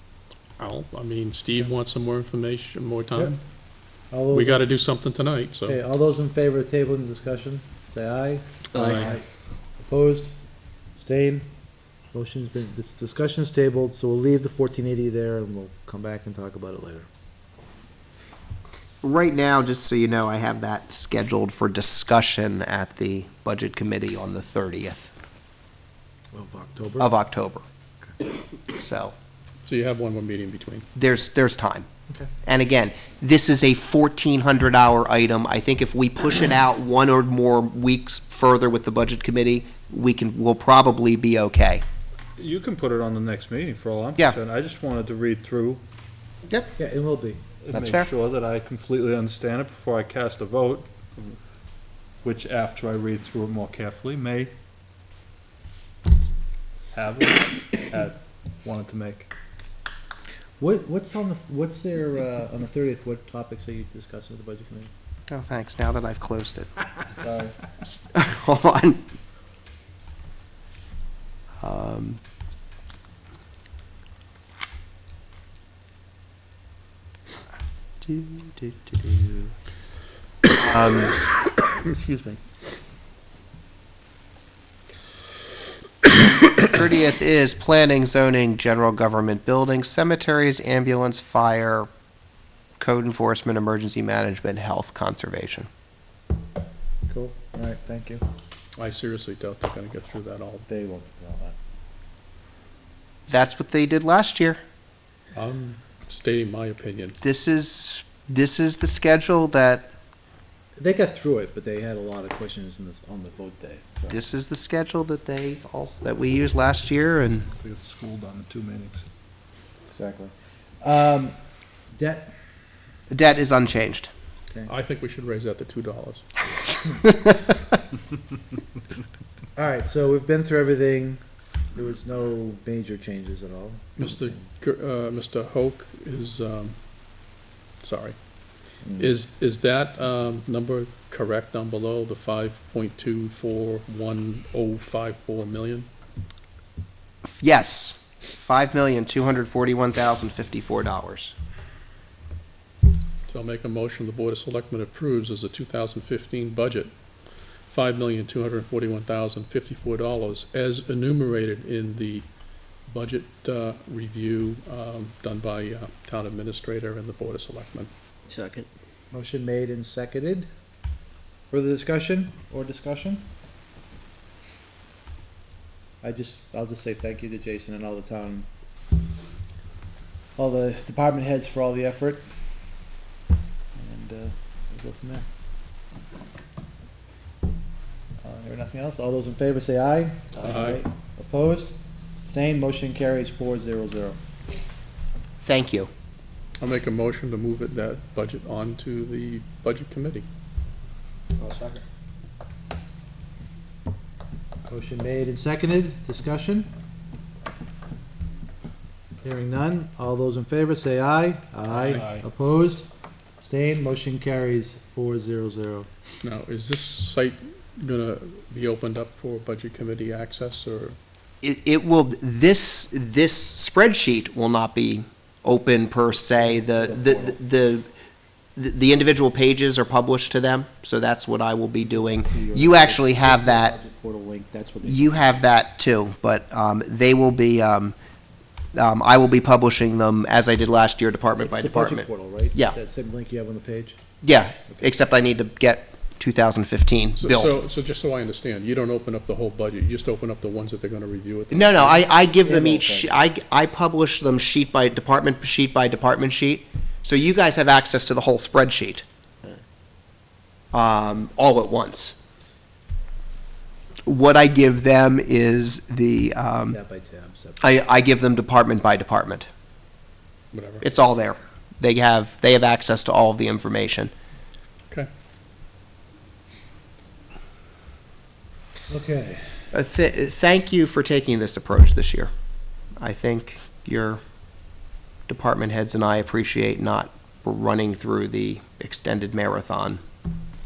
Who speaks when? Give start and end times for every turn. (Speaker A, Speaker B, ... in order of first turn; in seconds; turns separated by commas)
Speaker A: 0.6-3.4, Speaker B: 4.1-4.6, Speaker A: 4.3-5.8, Speaker B: 5.7-9.2, Speaker B: 9.8-10.4, Speaker B: 11.0-11.4, Speaker B: 12.1-17.1, Speaker C: 19.0-25.1, Speaker B: 26.3-27.1, Speaker C: 27.0-27.6, Speaker C: 28.7-29.1, Speaker A: 29.6-30.9, Speaker C: 30.9-31.9, Speaker C: 32.4-41.8, Speaker D: 42.4-45.8, Speaker B: 46.8-47.4, Speaker D: 47.6-50.9, Speaker C: 47.7-48.1, Speaker D: 52.2-54.5, Speaker D: 56.9-59.3, Speaker B: 60.6-64.9, Speaker C: 65.3-66.7, Speaker B: 67.2-67.6, Speaker C: 68.1-69.0, Speaker C: 71.6-72.2, Speaker C: 78.0-79.5, Speaker C: 80.5-81.2, Speaker A: 81.8-82.4, Speaker C: 86.4-91.9, Speaker C: 92.8-95.7, Speaker B: 97.1-98.2, Speaker A: 98.8-100.7, Speaker B: 100.7-101.6, Speaker C: 103.3-104.6, Speaker A: 105.3-107.2, Speaker C: 107.2-109.9, Speaker B: 110.8-114.2, Speaker C: 114.1-117.5, Speaker D: 117.5-119.1, Speaker B: 119.9-121.4, Speaker B: 121.9-122.3, Speaker C: 123.1-124.1, Speaker A: 124.7-126.2, Speaker B: 129.6-131.2, Speaker B: 131.7-134.5, Speaker A: 134.0-145.9, Speaker B: 138.8-139.1, Speaker C: 147.4-151.3, Speaker A: 153.3-156.9, Speaker A: 157.6-162.3, Speaker A: 162.8-167.9, Speaker B: 169.1-170.5, Speaker B: 171.5-173.2, Speaker B: 176.0-178.5, Speaker B: 180.4-182.2, Speaker B: 183.8-185.2, Speaker B: 188.2-194.2, Speaker A: 190.4-190.8, Speaker C: 195.4-195.9, Speaker A: 196.6-200.2, Speaker B: 201.4-201.8, Speaker B: 204.7-206.7, Speaker B: 209.2-212.9, Speaker A: 211.7-212.1, Speaker D: 211.7-212.2, Speaker B: 213.4-215.9, Speaker A: 216.2-221.0, Speaker C: 221.4-227.9, Speaker B: 226.4-227.4, Speaker C: 228.6-233.7, Speaker B: 231.8-235.1, Speaker C: 234.8-238.0, Speaker C: 238.7-242.8, Speaker B: 241.4-244.0, Speaker C: 244.2-247.6, Speaker A: 247.2-252.1, Speaker C: 251.5-259.1, Speaker B: 252.4-253.2, Speaker C: 260.7-262.2, Speaker C: 264.1-266.8, Speaker B: 266.7-267.7, Speaker C: 267.6-269.5, Speaker A: 270.5-270.9, Speaker C: 270.8-274.1, Speaker B: 278.9-279.7, Speaker C: 279.7-282.3, Speaker C: 283.0-284.2, Speaker C: 285.3-290.0